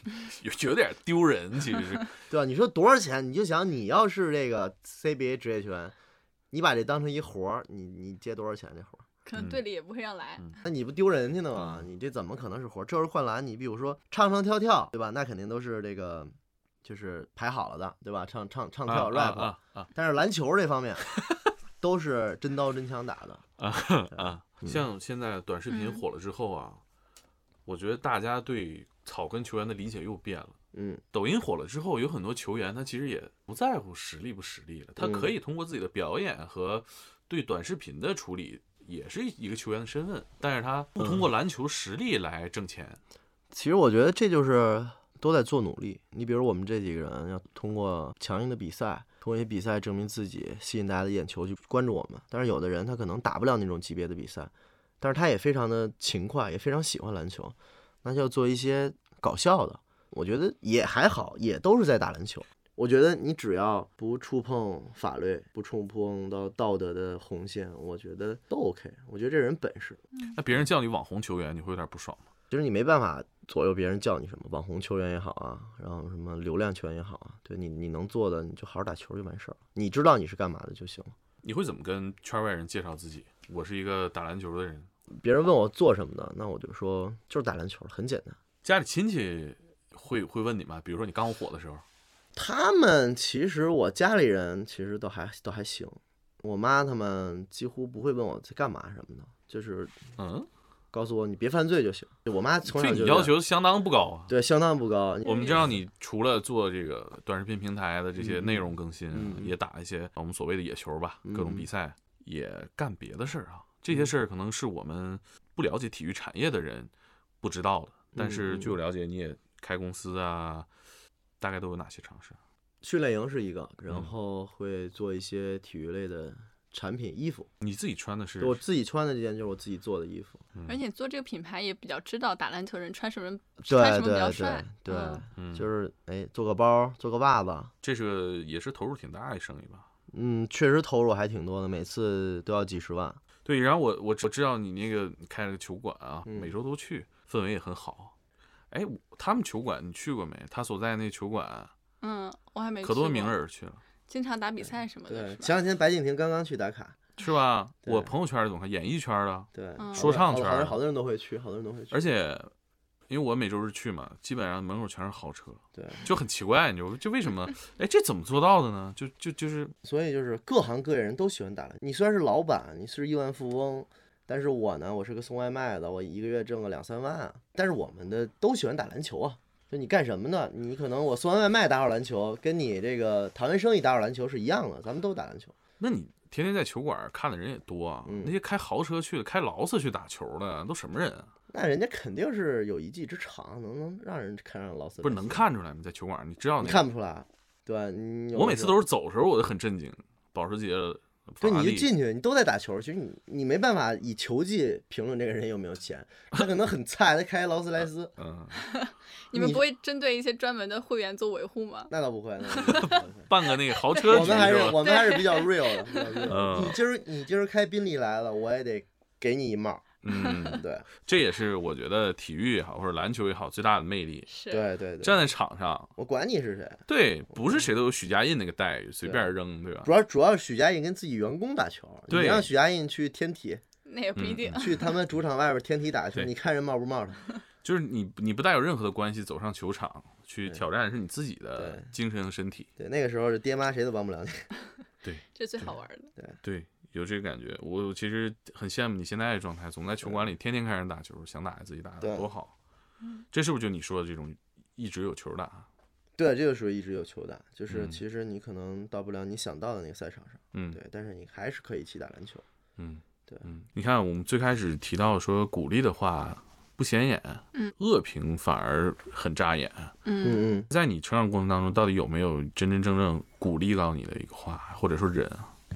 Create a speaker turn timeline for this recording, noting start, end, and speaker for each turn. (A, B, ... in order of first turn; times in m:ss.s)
0:00.2-0:02.1 A
0:02.3-0:05.9 B
0:06.5-0:09.0 B
0:09.2-0:10.6 C
0:09.3-0:09.6 A
0:10.6-0:16.3 B
0:11.5-0:11.8 A
0:16.8-0:21.1 B
0:18.8-0:19.9 A
0:21.2-0:21.5 A
0:21.8-0:23.4 B
0:23.6-0:26.8 A
0:24.1-0:24.8 B
0:25.7-0:26.0 C
0:27.6-0:30.5 A
0:30.7-0:31.0 B
0:31.1-0:43.0 A
0:35.0-0:35.3 B
0:43.5-1:10.0 B
1:10.3-1:12.2 A
1:12.5-1:21.1 B
1:21.4-1:24.9 A
1:25.2-1:28.4 B
1:28.6-1:31.8 A
1:32.4-1:39.9 B
1:40.2-1:40.5 A
1:40.9-1:43.4 B
1:42.6-1:44.3 A
1:44.3-1:45.8 B
1:45.2-2:00.7 A
1:45.2-1:45.6 C
1:48.2-1:49.5 B
1:51.2-1:51.7 B
1:58.1-1:58.8 B
2:01.4-2:02.4 A
2:02.8-2:07.5 B
2:07.6-2:08.6 A
2:08.4-2:10.4 B
2:10.5-2:10.8 A
2:10.7-2:15.2 C
2:13.6-2:17.7 B
2:15.4-2:15.7 A
2:17.8-2:19.9 A
2:20.1-2:23.2 B
2:23.4-2:28.1 A
2:26.2-2:26.5 B
2:28.7-2:31.7 A
2:32.0-2:33.3 C
2:32.8-2:33.8 A
2:34.1-2:35.5 C
2:35.1-2:37.0 B
2:37.2-2:40.8 A
2:37.8-2:38.1 B
2:39.5-2:42.0 B
2:39.8-2:40.2 C
2:41.9-2:42.5 A
2:43.1-2:49.7 A
2:45.7-2:46.0 B
2:49.8-3:05.5 B
3:05.8-3:11.3 A
3:08.0-3:08.3 B
3:11.5-3:15.4 B
3:15.0-3:16.9 A
3:16.6-3:18.8 B
3:18.3-3:21.9 A
3:21.4-3:28.1 B
3:27.8-3:28.6 A
3:28.6-3:31.9 C
3:29.3-3:29.6 B
3:31.9-3:33.3 B
3:32.5-3:33.0 C
3:32.6-3:35.0 A
3:33.7-3:36.4 C
3:34.1-3:40.9 B
3:36.3-3:36.8 A
3:40.0-3:44.3 A
3:40.1-3:40.6 C
3:44.3-3:44.6 C
3:44.5-3:45.2 B
3:45.0-3:45.9 A
3:46.0-3:46.8 B
3:46.9-3:49.9 A
3:49.0-3:49.3 B
3:49.8-3:53.6 B
3:52.1-3:52.5 A
3:53.8-3:54.9 C
3:54.2-3:54.8 A
3:54.5-3:57.2 B
3:57.6-4:02.7 A
4:01.6-4:01.9 B
4:02.8-4:04.5 B
4:05.0-4:05.8 A
4:05.3-4:06.1 C
4:06.4-4:12.5 A
4:12.0-4:12.3 B
4:13.3-4:15.7 A
4:16.2-4:22.4 B
4:17.7-4:18.0 A
4:20.5-4:20.8 A
4:22.8-4:29.9 A
4:30.0-4:30.4 C
4:30.2-4:30.7 B
4:30.7-4:35.5 A